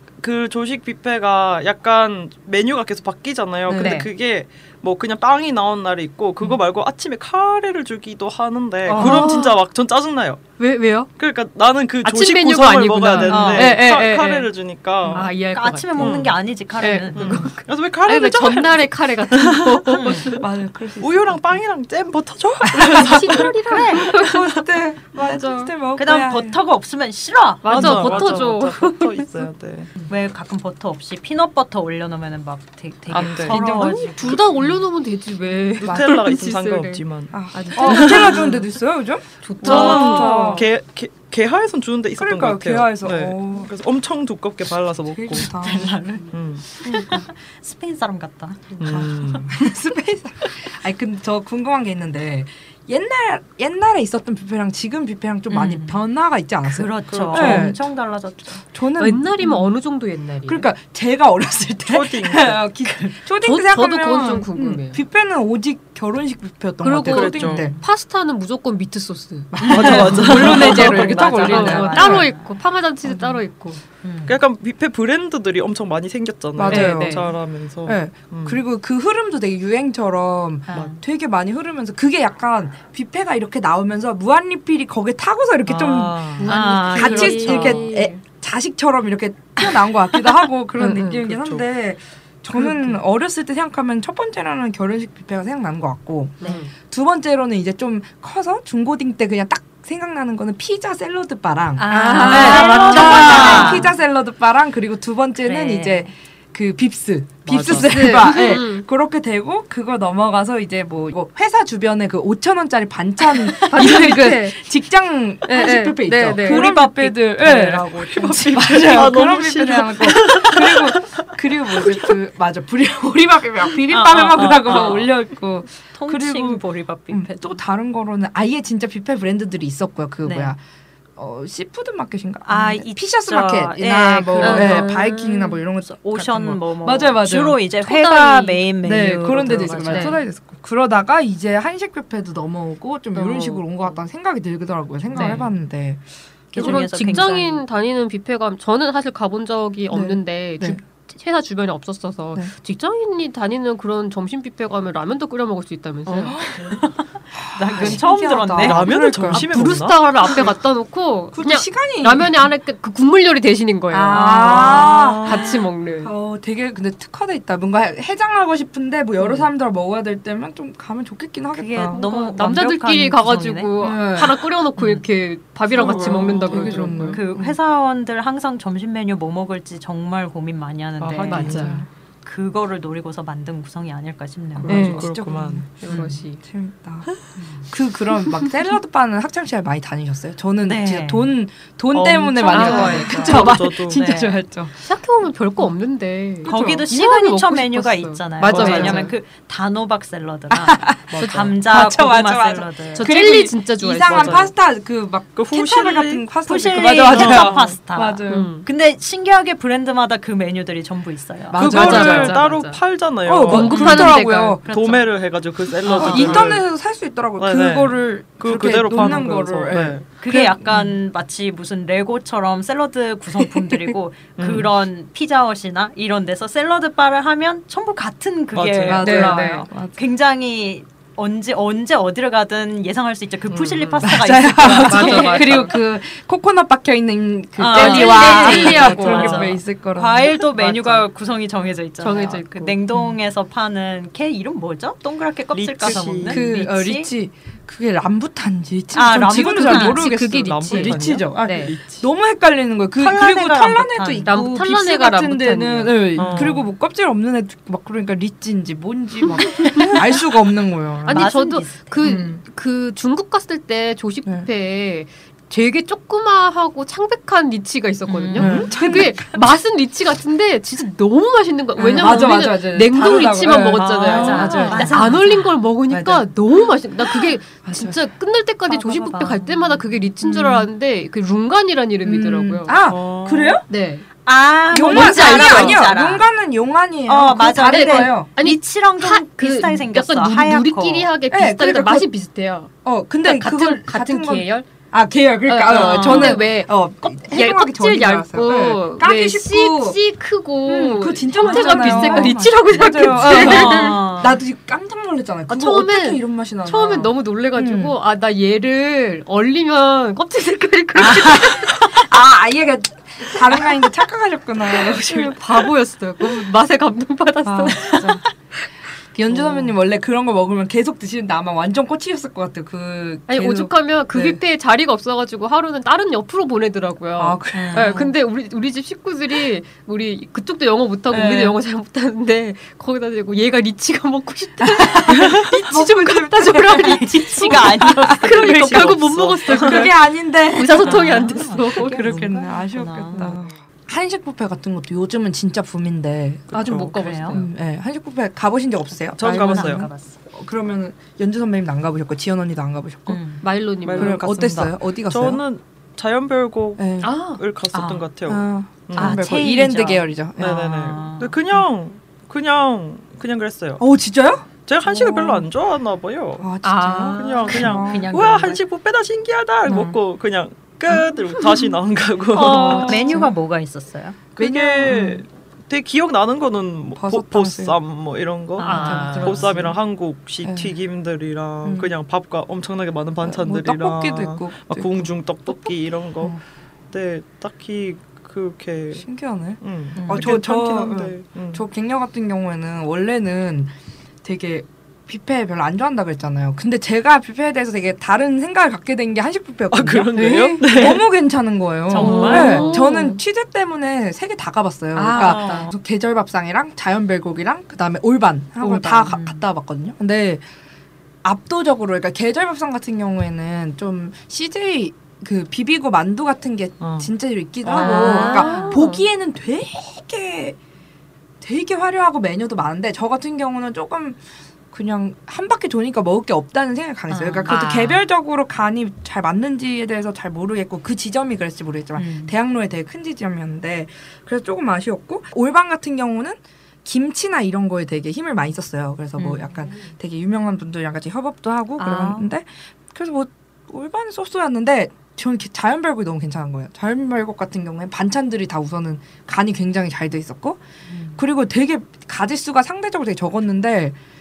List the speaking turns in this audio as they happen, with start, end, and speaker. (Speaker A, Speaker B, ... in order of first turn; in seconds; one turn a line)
Speaker A: 0.2-10.4
Speaker B: 3.6-3.9
Speaker C: 3.7-4.1
Speaker D: 8.8-9.2
Speaker C: 8.9-9.6
Speaker C: 10.6-11.1
Speaker A: 11.2-15.3
Speaker C: 12.0-14.5
Speaker D: 13.2-13.8
Speaker C: 15.1-16.2
Speaker D: 15.1-17.5
Speaker A: 16.0-16.3
Speaker C: 16.8-20.4
Speaker A: 17.1-20.3
Speaker D: 19.9-20.3
Speaker B: 20.3-21.6
Speaker A: 21.0-23.5
Speaker B: 22.6-26.6
Speaker C: 22.7-24.5
Speaker D: 23.6-24.1
Speaker C: 25.1-25.7
Speaker D: 25.9-28.4
Speaker C: 27.6-29.5
Speaker A: 27.6-29.9
Speaker D: 30.1-34.7
Speaker A: 33.1-33.6
Speaker C: 33.4-38.6
Speaker B: 33.5-33.9
Speaker A: 35.8-38.5
Speaker B: 35.8-36.2
Speaker B: 37.3-40.6
Speaker C: 39.4-40.7
Speaker A: 39.6-45.5
Speaker B: 42.2-43.7
Speaker B: 45.1-46.0
Speaker D: 45.3-49.5
Speaker A: 46.3-46.6
Speaker C: 46.8-47.1
Speaker A: 48.8-49.5
Speaker B: 49.5-57.8
Speaker D: 55.5-56.0
Speaker D: 56.7-58.6
Speaker A: 57.1-57.7
Speaker B: 58.6-59.6
Speaker C: 59.0-60.7
Speaker B: 60.5-67.7
Speaker A: 61.9-62.6
Speaker D: 62.8-63.2
Speaker C: 63.4-65.0
Speaker C: 66.8-73.8
Speaker A: 67.0-67.7
Speaker B: 69.5-72.3
Speaker D: 69.6-72.5
Speaker A: 69.6-71.3
Speaker B: 73.0-73.4
Speaker D: 74.0-74.4
Speaker A: 74.2-78.6
Speaker B: 76.5-77.3
Speaker C: 76.7-77.3
Speaker B: 77.8-130.6
Speaker D: 80.7-81.0
Speaker A: 85.7-86.5
Speaker D: 86.4-87.9
Speaker C: 86.4-88.2
Speaker C: 90.8-91.2
Speaker A: 91.2-91.6
Speaker C: 92.5-93.0
Speaker C: 96.4-96.7
Speaker D: 101.8-103.9
Speaker C: 101.9-103.9
Speaker D: 105.4-106.1
Speaker A: 107.5-107.9
Speaker C: 107.6-108.8
Speaker D: 113.6-113.9
Speaker C: 113.7-114.6
Speaker C: 115.5-116.7
Speaker D: 116.3-119.0
Speaker A: 118.1-121.2
Speaker D: 123.9-125.1
Speaker A: 124.4-125.0
Speaker D: 125.7-127.6
Speaker D: 130.2-130.5
Speaker B: 131.2-146.0
Speaker D: 132.4-135.1
Speaker C: 134.4-135.6
Speaker D: 135.8-140.2
Speaker C: 139.8-140.2
Speaker C: 143.1-143.6
Speaker D: 145.1-145.5
Speaker C: 145.1-145.4
Speaker D: 146.5-147.6
Speaker B: 146.5-146.8
Speaker C: 146.6-156.4
Speaker B: 149.9-150.8
Speaker D: 156.1-158.9
Speaker B: 156.2-156.7
Speaker B: 157.4-159.8
Speaker A: 158.6-160.0
Speaker C: 159.3-166.1
Speaker B: 161.3-162.5
Speaker B: 163.9-172.1
Speaker D: 164.1-165.0
Speaker A: 164.5-165.6
Speaker D: 171.5-173.7
Speaker C: 171.9-177.2
Speaker B: 173.8-174.4
Speaker D: 174.8-175.0
Speaker A: 175.7-177.1
Speaker B: 175.7-177.5
Speaker D: 176.0-185.0
Speaker A: 181.0-181.8
Speaker C: 181.3-181.8
Speaker B: 181.3-181.9
Speaker A: 184.6-185.7
Speaker B: 184.6-187.1
Speaker C: 184.7-185.1
Speaker C: 185.8-186.4
Speaker D: 187.4-187.6
Speaker B: 187.7-194.8
Speaker D: 190.6-191.3
Speaker D: 191.9-194.4
Speaker C: 192.5-193.5
Speaker A: 192.8-194.0
Speaker C: 194.8-199.1
Speaker B: 196.4-196.9
Speaker D: 196.4-203.1
Speaker B: 198.4-199.1
Speaker A: 198.5-199.1
Speaker B: 200.5-208.5
Speaker C: 201.1-201.5
Speaker C: 202.9-204.5
Speaker A: 204.1-204.5
Speaker A: 205.3-207.7
Speaker D: 206.4-211.6
Speaker C: 208.3-208.7
Speaker B: 211.5-212.4
Speaker A: 211.6-216.6
Speaker C: 211.6-212.8
Speaker B: 213.2-214.6
Speaker C: 213.4-214.6
Speaker D: 213.7-214.1
Speaker D: 214.6-215.1
Speaker D: 215.8-216.5
Speaker C: 215.8-216.4
Speaker B: 215.9-220.9
Speaker A: 217.4-220.1
Speaker D: 220.2-235.7
Speaker A: 224.4-224.7
Speaker A: 228.5-229.5
Speaker B: 228.8-230.0
Speaker C: 229.0-229.7
Speaker A: 233.5-234.1
Speaker B: 234.0-240.8
Speaker C: 234.7-235.7
Speaker D: 237.6-247.1
Speaker C: 237.7-239.6
Speaker C: 242.0-242.8
Speaker A: 245.5-246.4
Speaker B: 245.8-261.3
Speaker D: 248.9-250.1
Speaker C: 249.4-251.7
Speaker A: 249.7-252.0
Speaker D: 253.0-254.5
Speaker C: 254.3-256.4
Speaker A: 256.2-256.7
Speaker C: 259.4-260.0
Speaker C: 261.1-282.8
Speaker D: 261.1-262.1
Speaker B: 262.0-262.4
Speaker D: 268.1-268.7
Speaker B: 268.4-269.4
Speaker A: 268.4-268.7
Speaker B: 271.8-275.1
Speaker A: 273.8-275.0
Speaker D: 273.8-275.5
Speaker B: 275.9-278.0
Speaker D: 278.7-279.8
Speaker B: 280.2-280.7
Speaker B: 282.0-283.6
Speaker A: 282.9-283.6
Speaker C: 283.7-284.0
Speaker D: 284.2-286.2
Speaker B: 284.7-288.3
Speaker C: 284.8-285.8
Speaker D: 287.1-291.1
Speaker C: 287.6-292.7
Speaker B: 291.3-292.1
Speaker B: 292.8-300.0
Speaker C: 293.2-294.6
Speaker C: 295.5-296.7
Speaker D: 295.7-296.4
Speaker C: 297.2-304.0
Speaker B: 300.6-307.9
Speaker D: 301.4-302.4
Speaker D: 303.1-304.4
Speaker C: 305.5-312.1
Speaker B: 310.9-315.7
Speaker C: 314.7-318.2
Speaker B: 317.4-318.2
Speaker B: 319.1-324.4
Speaker C: 323.3-340.0
Speaker B: 327.2-328.1
Speaker D: 327.5-328.1
Speaker B: 331.1-331.6
Speaker B: 334.6-353.2
Speaker D: 336.7-339.8
Speaker A: 338.7-339.7
Speaker C: 340.5-342.1
Speaker D: 340.8-343.4
Speaker A: 346.5-347.0
Speaker C: 346.5-347.5
Speaker D: 346.9-347.4
Speaker A: 349.2-349.9
Speaker D: 349.2-350.2
Speaker D: 353.1-353.4
Speaker C: 353.4-354.2
Speaker A: 353.8-359.2
Speaker B: 353.9-355.4
Speaker B: 356.8-357.1
Speaker C: 357.0-357.4
Speaker D: 357.7-358.1
Speaker B: 358.3-360.8
Speaker D: 358.9-361.4
Speaker A: 360.4-363.8
Speaker B: 363.8-365.5
Speaker A: 364.6-366.5
Speaker B: 366.4-368.1
Speaker D: 366.6-368.6
Speaker A: 367.1-373.2
Speaker B: 369.7-369.9
Speaker D: 372.3-374.2
Speaker B: 372.4-373.3
Speaker A: 374.4-386.4
Speaker B: 374.4-375.2
Speaker B: 376.9-377.8
Speaker D: 378.6-379.8
Speaker C: 378.6-379.5
Speaker B: 378.9-379.2
Speaker B: 380.4-380.8
Speaker B: 381.6-381.9
Speaker B: 383.2-386.4
Speaker A: 386.9-389.0
Speaker B: 388.9-393.7
Speaker A: 389.6-391.6
Speaker D: 389.9-390.3
Speaker B: 394.2-410.4
Speaker A: 399.7-401.0
Speaker C: 400.1-400.8
Speaker D: 401.9-402.8
Speaker C: 401.9-403.2
Speaker A: 402.0-402.7
Speaker C: 404.9-405.7
Speaker D: 405.1-405.7
Speaker D: 408.6-409.4
Speaker B: 411.2-420.6
Speaker A: 416.8-417.1
Speaker D: 417.6-418.8
Speaker C: 417.7-419.0
Speaker B: 421.4-424.2
Speaker B: 424.7-450.6
Speaker D: 427.1-428.0
Speaker C: 427.5-427.8
Speaker D: 432.0-432.3
Speaker D: 439.2-439.5
Speaker D: 441.8-442.3
Speaker D: 450.9-451.2
Speaker B: 451.1-453.9